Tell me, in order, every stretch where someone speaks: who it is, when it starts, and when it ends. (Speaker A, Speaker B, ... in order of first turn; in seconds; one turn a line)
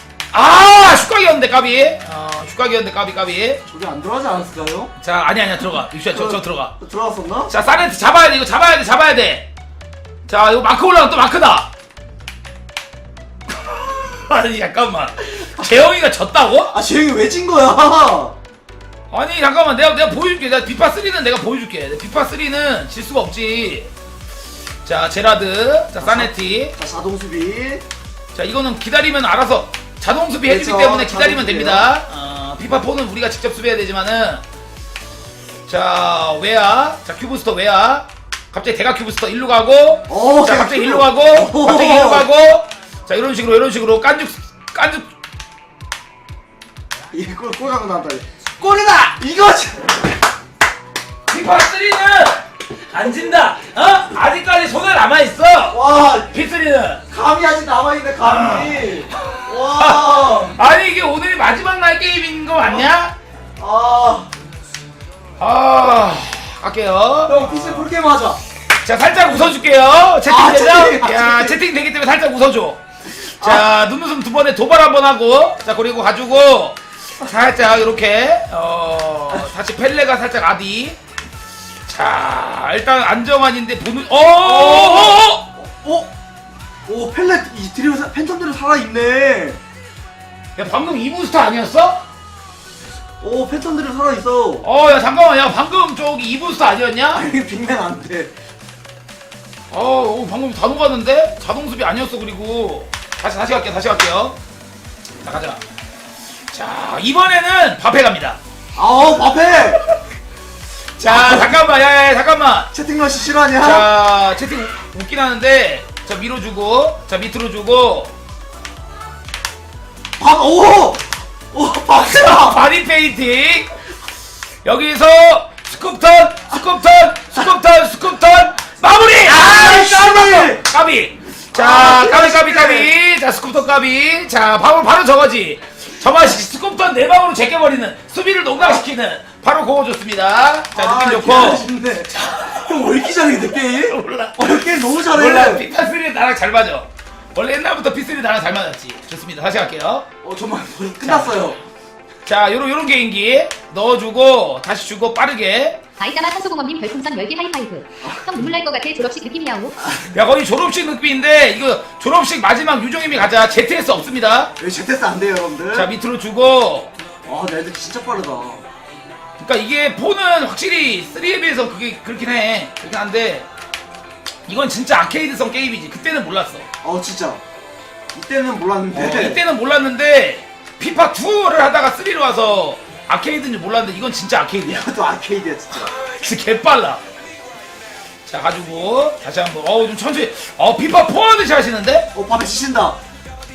Speaker A: 0.3-3.6
Speaker B: 3.7-4.9
Speaker A: 5.0-6.7
Speaker B: 6.1-7.5
Speaker A: 7.5-9.5
Speaker A: 10.3-11.7
Speaker A: 13.6-16.8
Speaker B: 16.7-18.4
Speaker A: 19.1-23.9
Speaker A: 24.9-26.8
Speaker B: 26.0-27.8
Speaker A: 28.4-34.4
Speaker B: 30.4-31.9
Speaker A: 35.7-45.1
Speaker B: 40.1-42.3
Speaker B: 47.1-50.0
Speaker A: 51.3-57.0
Speaker B: 55.7-56.3
Speaker B: 57.1-60.6
Speaker A: 58.2-58.9
Speaker A: 59.8-63.1
Speaker B: 63.6-64.3
Speaker A: 65.4-67.9
Speaker B: 67.3-68.4
Speaker A: 68.8-81.0
Speaker B: 70.2-71.6
Speaker B: 73.4-73.7
Speaker A: 81.9-85.5
Speaker B: 84.2-86.1
Speaker B: 86.9-89.6
Speaker A: 90.6-92.1
Speaker B: 93.2-94.7
Speaker A: 94.6-97.3
Speaker B: 97.1-98.3
Speaker A: 99.7-104.4
Speaker A: 105.2-105.6
Speaker A: 106.5-108.4
Speaker B: 108.8-109.8
Speaker A: 111.0-112.7
Speaker B: 111.0-111.6
Speaker B: 112.7-113.9
Speaker A: 113.6-118.1
Speaker B: 120.2-122.6
Speaker A: 122.0-123.7
Speaker A: 124.7-143.0
Speaker B: 129.2-130.7
Speaker B: 131.5-132.9
Speaker B: 138.6-138.8
Speaker B: 140.7-145.7
Speaker A: 143.7-150.1
Speaker B: 150.2-151.6
Speaker A: 151.0-151.5
Speaker A: 152.3-155.8
Speaker C: 156.0-159.8
Speaker B: 158.0-158.3
Speaker A: 159.9-164.5
Speaker B: 164.6-165.9
Speaker A: 165.7-166.9
Speaker B: 167.3-168.6
Speaker A: 169.4-173.5
Speaker A: 174.5-176.7
Speaker B: 176.8-177.4
Speaker B: 178.1-179.4
Speaker A: 178.9-184.9
Speaker B: 184.7-185.9
Speaker A: 185.9-187.0
Speaker A: 188.3-192.1
Speaker B: 192.1-193.0